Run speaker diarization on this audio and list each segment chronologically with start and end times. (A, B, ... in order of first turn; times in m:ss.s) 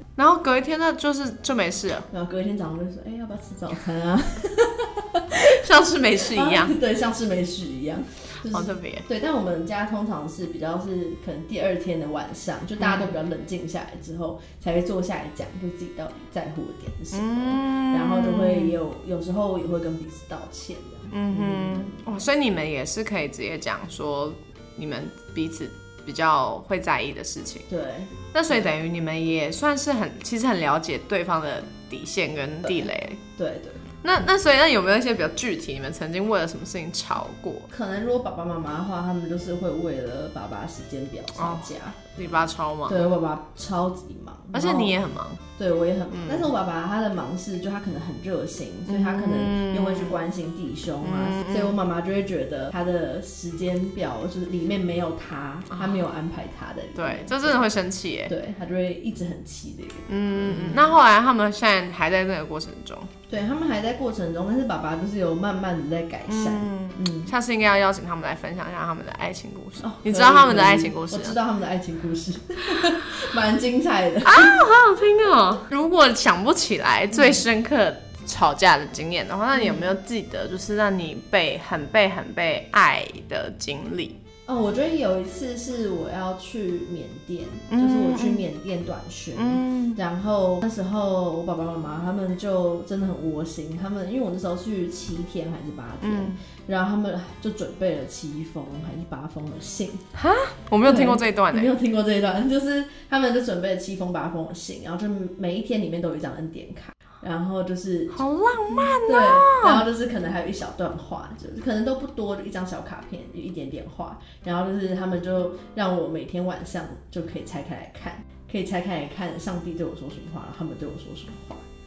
0:00.2-0:02.1 A
0:02.1-0:05.3 B
0:05.4-0:06.8 A
0:06.2-0:22.2 B
0:08.5-0:09.0 A
0:12.8-0:13.1 A
0:17.1-0:18.8 A
0:21.1-0:27.7 A
0:27.7-0:28.7 B
0:28.3-0:33.2 A
0:32.6-0:33.9 B
0:34.0-0:37.7 A
0:37.7-0:42.0 B
0:41.4-0:43.0 A
0:42.9-0:45.0 B
0:44.5-0:45.4 A
0:45.6-0:57.7 B
0:46.1-0:46.5 A
0:48.9-0:50.2 A
0:51.0-0:51.8 A
0:55.7-0:56.1 A
0:57.0-0:58.3 A
0:58.3-1:01.0 B
1:00.1-1:03.1 A
1:03.3-1:07.3 B
1:06.3-1:11.4 A
1:09.8-1:14.6 B
1:14.2-1:24.2 A
1:17.1-1:17.4 B
1:19.5-1:19.9 B
1:24.5-1:40.0 B
1:27.7-1:28.5 A
1:29.4-1:30.0 A
1:36.0-1:36.4 A
1:40.1-1:41.7 A
1:40.8-1:48.2 B
1:48.1-1:49.9 A
1:48.9-2:01.6 B